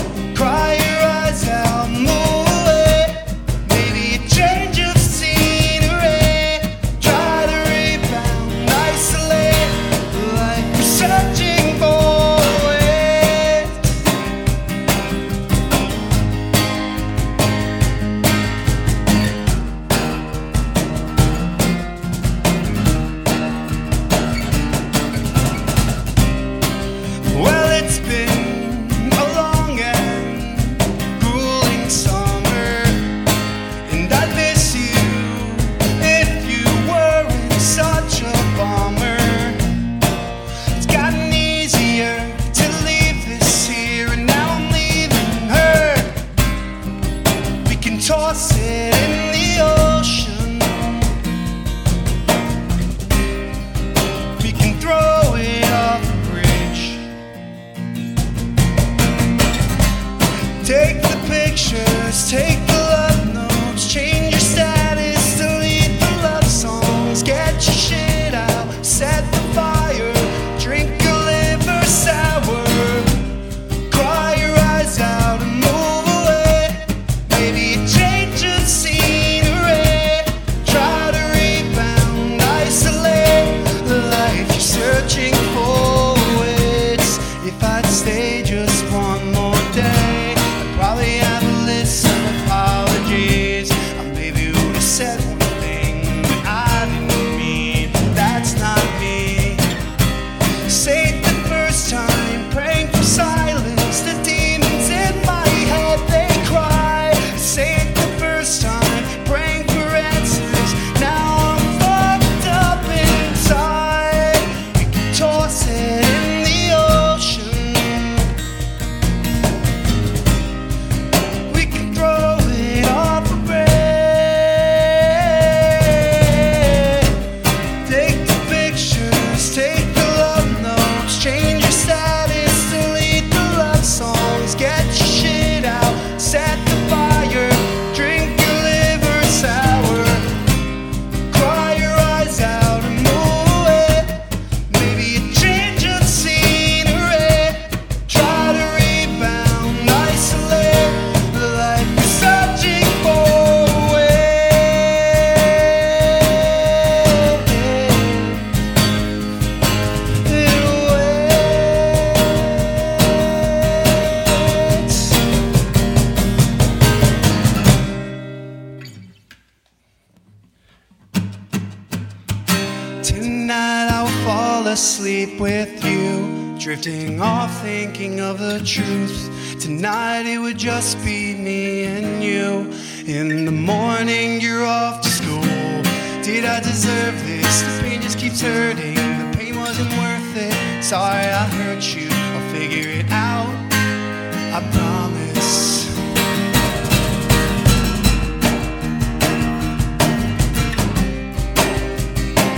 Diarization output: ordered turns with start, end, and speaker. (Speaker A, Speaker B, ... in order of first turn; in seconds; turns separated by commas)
Speaker A: 0.3-13.9, Speaker A: 27.2-33.2, Speaker A: 33.9-39.8, Speaker A: 40.7-46.3, Speaker A: 47.6-51.2, Speaker A: 54.4-57.1, Speaker A: 60.6-73.3, Speaker A: 73.9-99.8, Speaker A: 100.7-118.4, Speaker A: 121.5-127.3, Speaker A: 127.8-140.5, Speaker A: 141.3-158.7, Speaker A: 160.2-165.2, Speaker A: 173.0-193.7, Speaker A: 194.5-196.0